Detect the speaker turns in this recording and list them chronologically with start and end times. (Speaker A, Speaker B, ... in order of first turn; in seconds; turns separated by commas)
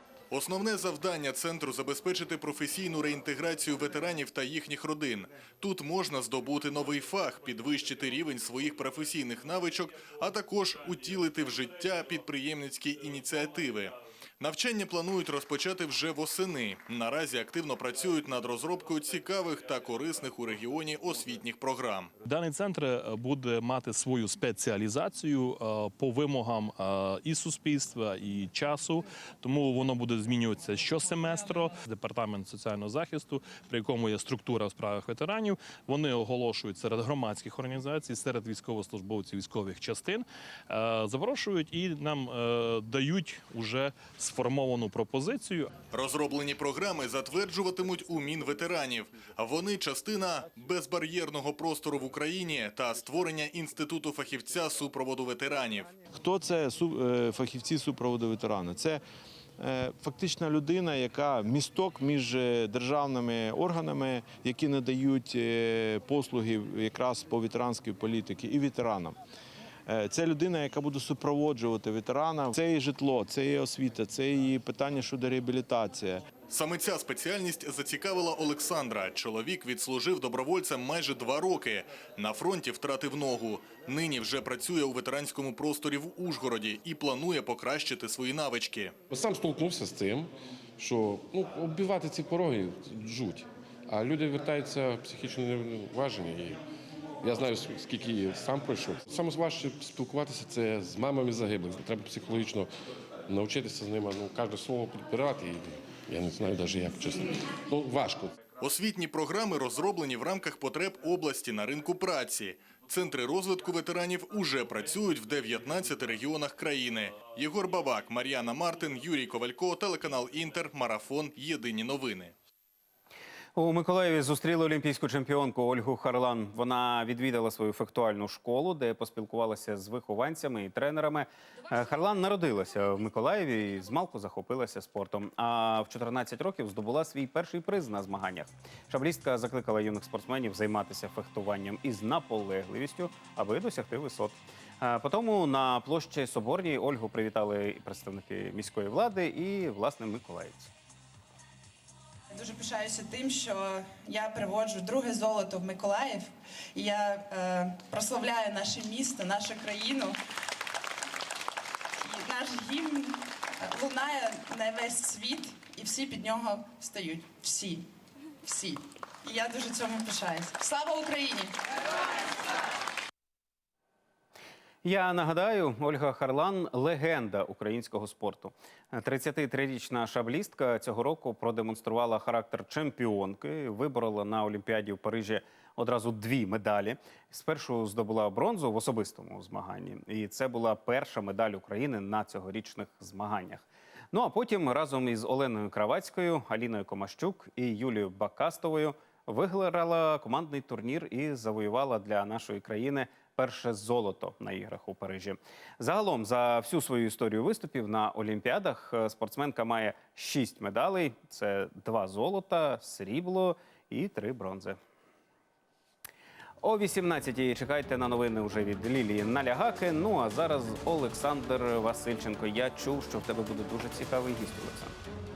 Speaker A: 0.3-22.2, Speaker B: 22.2-45.7, Speaker A: 45.9-55.9, Speaker C: 56.1-59.0, Speaker C: 59.6-69.2, Speaker C: 69.9-76.2, Speaker A: 76.5-88.9, Speaker D: 89.2-96.6, Speaker D: 97.2-102.7, Speaker D: 103.3-108.3, Speaker A: 108.6-122.3, Speaker E: 123.5-150.7, Speaker F: 152.3-160.2, Speaker F: 162.0-167.9, Speaker F: 168.4-171.5, Speaker E: 174.8-214.8, Speaker E: 216.6-225.0